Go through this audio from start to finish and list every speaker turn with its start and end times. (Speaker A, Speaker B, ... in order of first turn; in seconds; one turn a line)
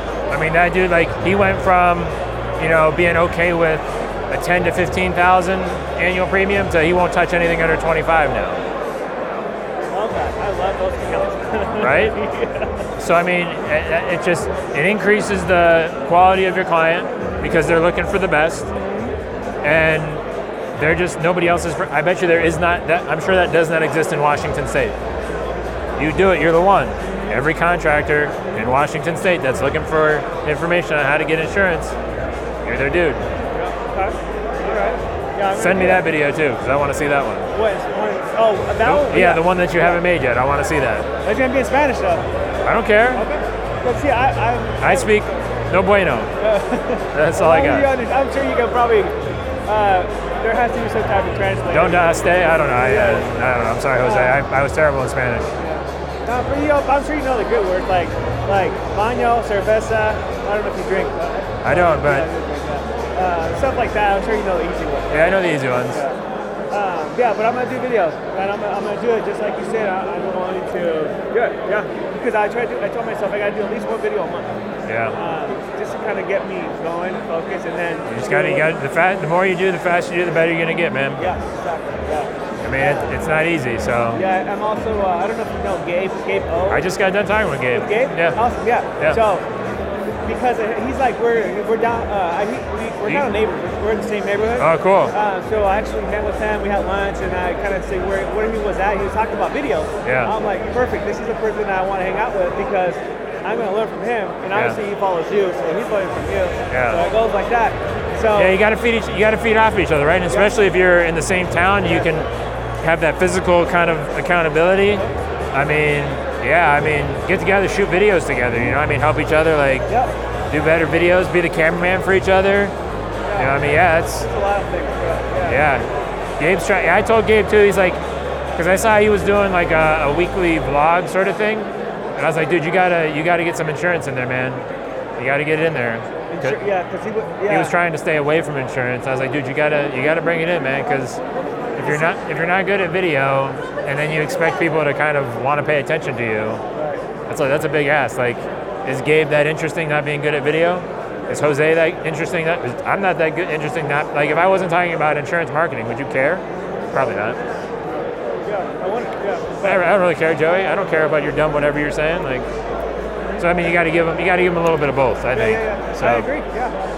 Speaker A: 0.3-8.6
Speaker B: 9.9-12.9
Speaker A: 11.8-12.2
Speaker A: 13.0-18.7
Speaker B: 18.7-19.2
Speaker A: 19.6-20.2
Speaker A: 20.8-25.0
Speaker A: 26.0-32.0
Speaker A: 32.6-33.2
Speaker B: 33.5-36.1
Speaker A: 35.5-37.5
Speaker B: 37.5-40.0
Speaker A: 38.8-41.1
Speaker B: 41.2-42.3
Speaker A: 42.6-43.2
Speaker B: 43.1-45.1
Speaker A: 44.8-46.3
Speaker B: 46.4-49.1
Speaker A: 47.1-47.9
Speaker B: 49.7-53.3
Speaker A: 51.7-55.5
Speaker B: 54.0-54.4
Speaker B: 55.6-66.2
Speaker A: 61.6-62.3
Speaker A: 65.1-66.0
Speaker B: 66.7-74.5
Speaker A: 74.9-75.2
Speaker B: 75.1-78.7
Speaker A: 78.1-81.3
Speaker B: 81.2-83.2
Speaker A: 82.6-84.2
Speaker B: 84.1-86.9
Speaker A: 86.7-88.4
Speaker B: 87.7-89.5
Speaker B: 90.2-108.6
Speaker A: 94.6-95.2
Speaker A: 100.0-100.3
Speaker A: 104.5-104.8
Speaker A: 106.7-107.1
Speaker A: 108.3-112.3
Speaker B: 110.3-110.6
Speaker B: 111.8-112.3
Speaker A: 112.8-119.9
Speaker B: 119.9-120.1
Speaker A: 120.5-122.7
Speaker B: 123.2-125.7
Speaker A: 123.4-124.3
Speaker A: 125.4-125.9
Speaker A: 126.4-128.0
Speaker A: 128.6-134.6
Speaker A: 135.2-136.6
Speaker B: 136.3-137.8
Speaker A: 137.5-141.2
Speaker B: 141.8-142.5
Speaker A: 141.8-146.6
Speaker B: 146.8-147.0
Speaker A: 147.3-157.4
Speaker B: 158.4-159.9
Speaker A: 159.6-162.5
Speaker A: 163.4-166.3
Speaker B: 165.3-166.8